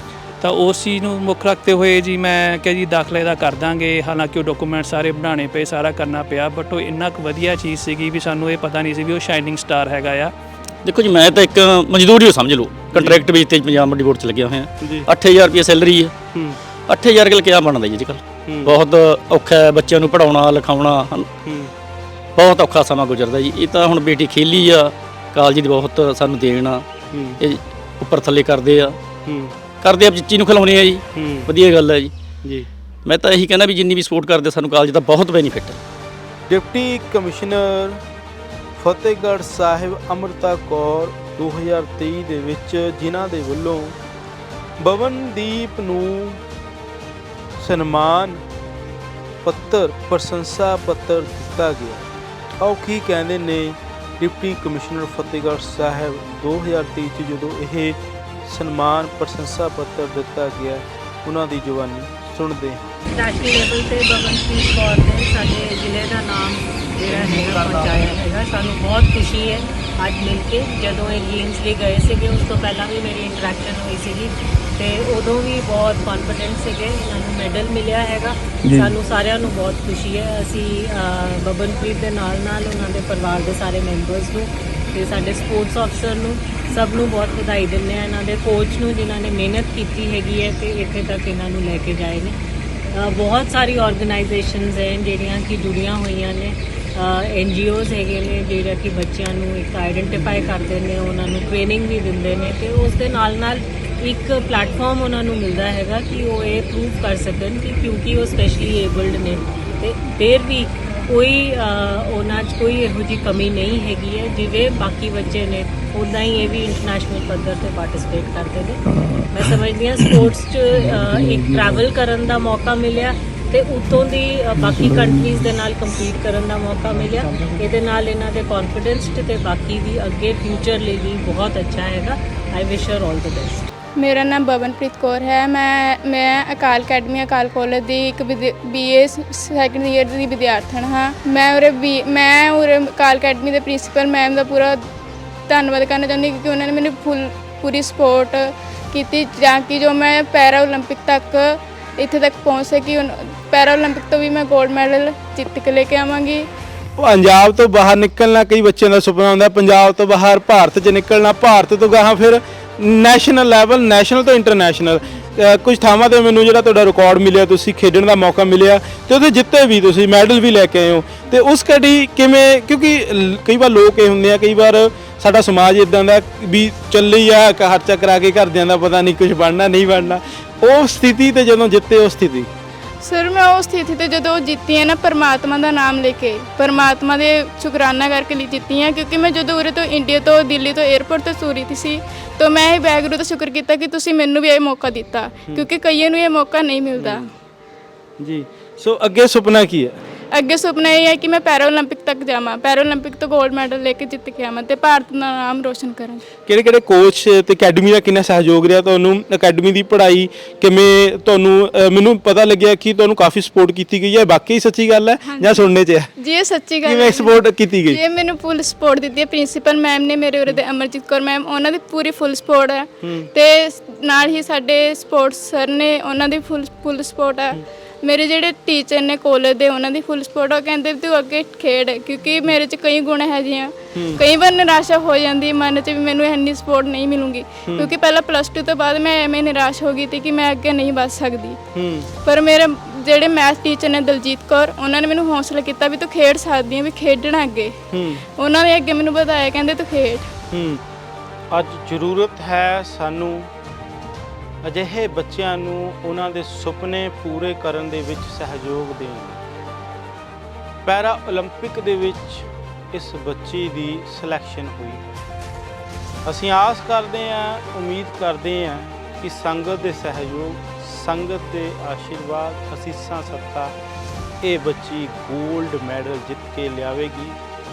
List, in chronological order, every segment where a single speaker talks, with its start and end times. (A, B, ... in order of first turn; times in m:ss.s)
0:00.4-0:10.3 A
0:10.8-0:16.1 B
0:12.9-0:13.2 C
0:14.8-0:15.1 C
0:16.9-0:21.3 B
0:18.4-0:18.7 C
0:21.4-0:21.7 C
0:22.4-0:26.8 B
0:27.1-0:27.4 C
0:27.4-0:29.0 B
0:29.2-0:29.5 C
0:29.8-0:32.1 B
0:31.1-0:31.5 C
0:33.0-0:35.8 B
0:36.5-0:38.0 C
0:38.8-0:44.0 C
0:44.8-0:46.4 C
0:47.6-0:48.4 C
0:49.4-0:52.1 C
0:52.6-1:02.8 C
1:03.1-1:32.4 D
1:32.9-2:13.7 D
2:14.0-2:24.9 E
2:25.5-2:36.5 E
2:37.0-3:02.5 C
3:03.0-3:17.3 E
3:17.0-3:17.2 C
3:18.2-3:20.0 C
3:20.3-3:26.2 E
3:26.4-3:36.1 C
3:35.2-3:35.6 E
3:36.2-4:01.6 E
3:36.8-3:38.0 C
3:43.0-3:43.3 C
3:53.9-3:54.2 C
3:57.7-3:57.9 C
4:01.7-4:02.1 C
4:02.2-4:07.8 E
4:07.9-4:08.2 C
4:08.3-4:10.3 E
4:10.5-4:10.8 C
4:11.5-4:13.5 C
4:14.6-4:19.4 C
4:20.8-4:25.0 C
4:26.2-4:33.7 C
4:34.4-4:37.4 C